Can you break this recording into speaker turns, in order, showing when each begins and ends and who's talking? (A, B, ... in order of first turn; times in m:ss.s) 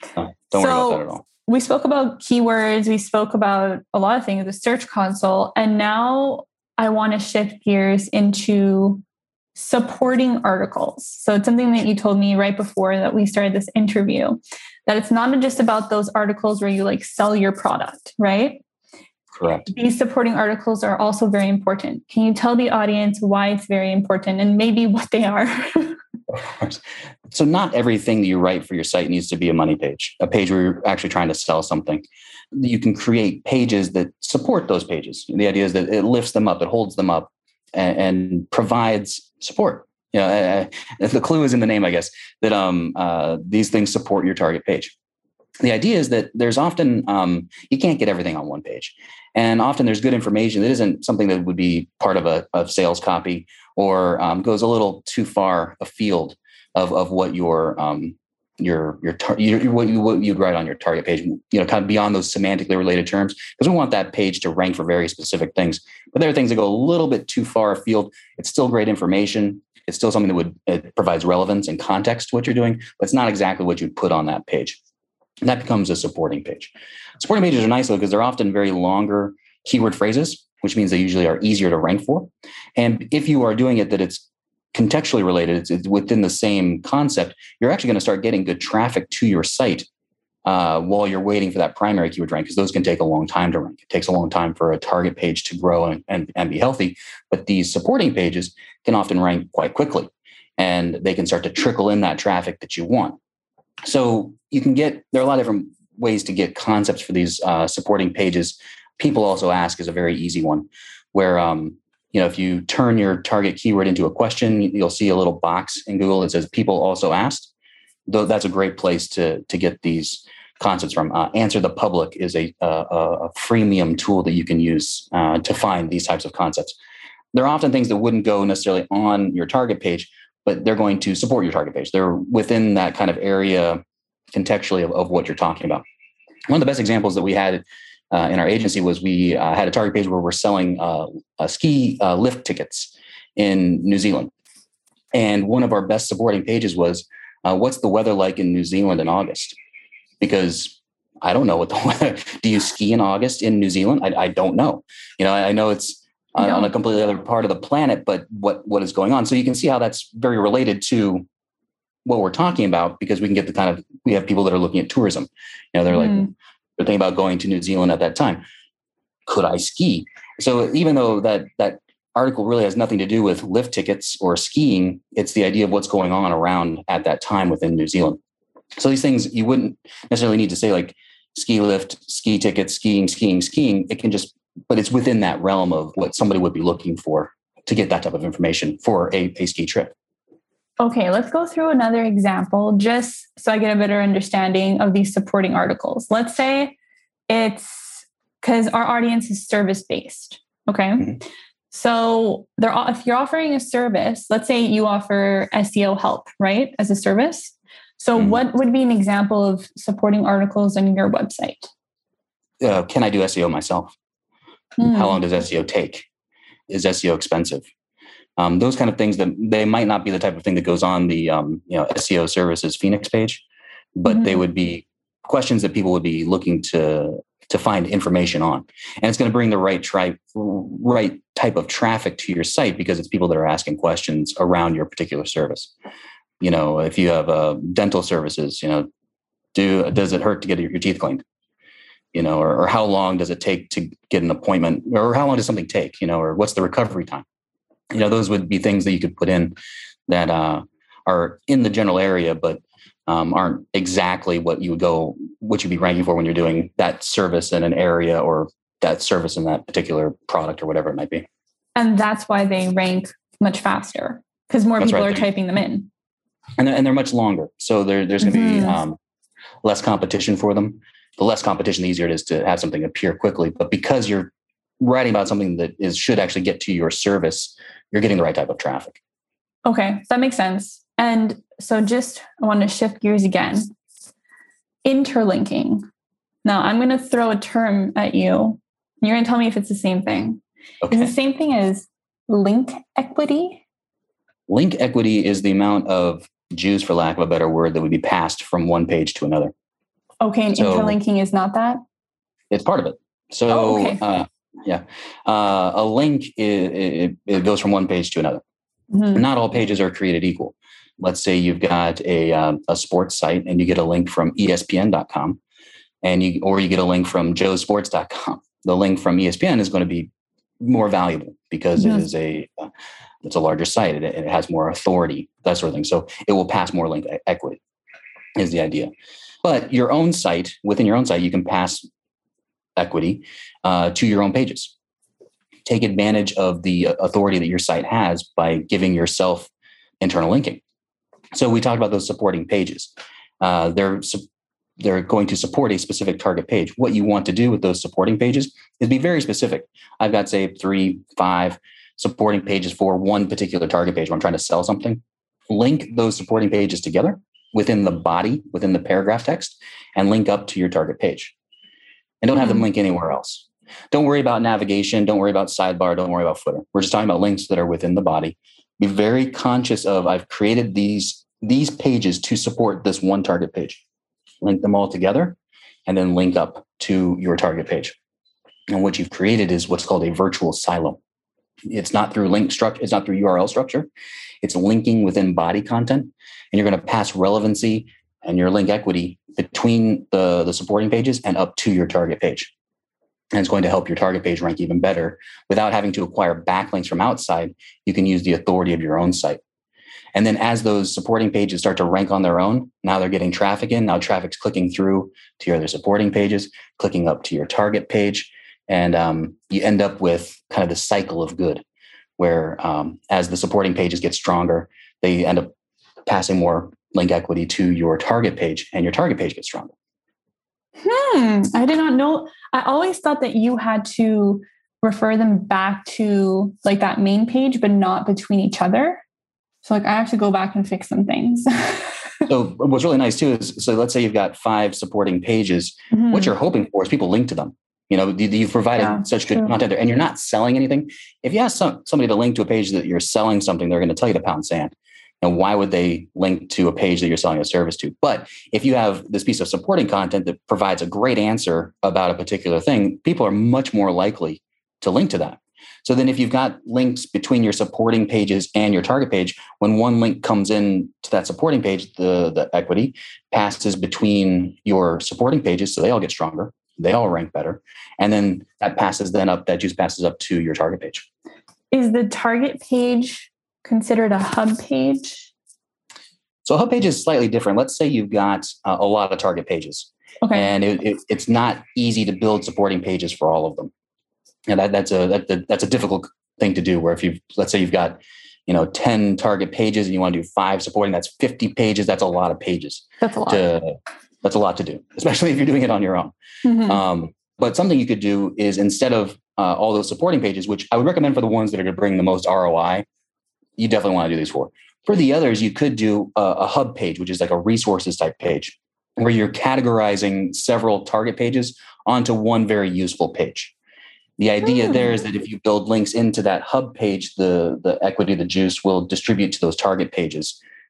0:00.2-0:01.2 A
0:00.5-0:09.0 B
0:09.6-0:18.6 B
0:19.4-0:19.7 A
0:19.7-0:26.0 B
0:26.3-0:44.9 A
0:45.6-1:14.8 A
1:15.4-1:29.9 A
1:30.4-1:43.2 A
1:43.8-1:57.5 A
1:58.1-2:06.8 A
2:07.3-2:13.8 A
2:14.3-2:15.8 A
2:16.5-2:24.3 A
2:25.1-2:29.6 A
2:30.2-2:41.2 A
2:36.4-2:36.7 B
2:42.0-2:48.4 A
2:45.9-2:46.3 B
2:49.3-2:58.2 A
2:58.8-3:09.9 A
3:10.8-3:16.8 B
3:17.3-3:31.7 B
3:32.6-3:34.0 A
3:34.8-3:35.2 B
3:34.8-3:36.1 A
3:36.7-3:37.6 A
3:38.4-3:43.4 A
3:44.0-3:55.7 A
3:44.0-3:44.4 B
3:56.4-3:58.9 A
3:59.5-4:01.2 A
4:02.1-4:07.2 A
4:07.9-4:21.2 A
4:21.8-4:25.9 B
4:24.8-4:25.3 A
4:26.6-4:29.0 A
4:28.2-4:28.8 B
4:29.6-4:39.0 A
4:39.6-4:43.7 B
4:44.8-4:45.8 B
4:46.4-4:53.6 B
4:50.8-4:51.1 A
4:54.5-4:59.5 A
5:00.2-5:01.8 B
5:00.5-5:01.0 A
5:02.5-5:08.4 A
5:03.5-5:04.0 B
5:08.9-5:09.2 B
5:09.1-5:15.4 A
5:16.0-5:20.1 A
5:20.6-5:22.7 A
5:21.8-5:22.0 B
5:23.2-5:27.6 A
5:28.4-5:28.9 A
5:29.4-5:31.8 A
5:32.8-5:34.7 A
5:35.6-5:40.6 A
5:41.3-5:44.2 A
5:44.8-6:01.3 A
6:02.2-6:13.8 A
6:14.4-6:18.0 A
6:18.7-6:21.0 A
6:21.7-6:23.9 A
6:24.4-6:32.5 A
6:33.3-6:39.4 A
6:40.1-6:51.6 A
6:52.2-6:55.5 A
6:56.0-6:59.7 A
7:00.8-7:09.0 B
7:09.6-7:12.2 B
7:12.3-7:51.1 A
7:15.9-7:16.3 B
7:18.8-7:19.5 B
7:51.7-7:55.3 B
7:56.4-8:03.7 A
8:00.2-8:00.5 B
8:04.5-8:22.8 A
8:13.0-8:13.4 B
8:16.4-8:16.8 B
8:23.6-8:33.5 A
8:34.2-8:40.4 A
8:34.4-8:34.9 B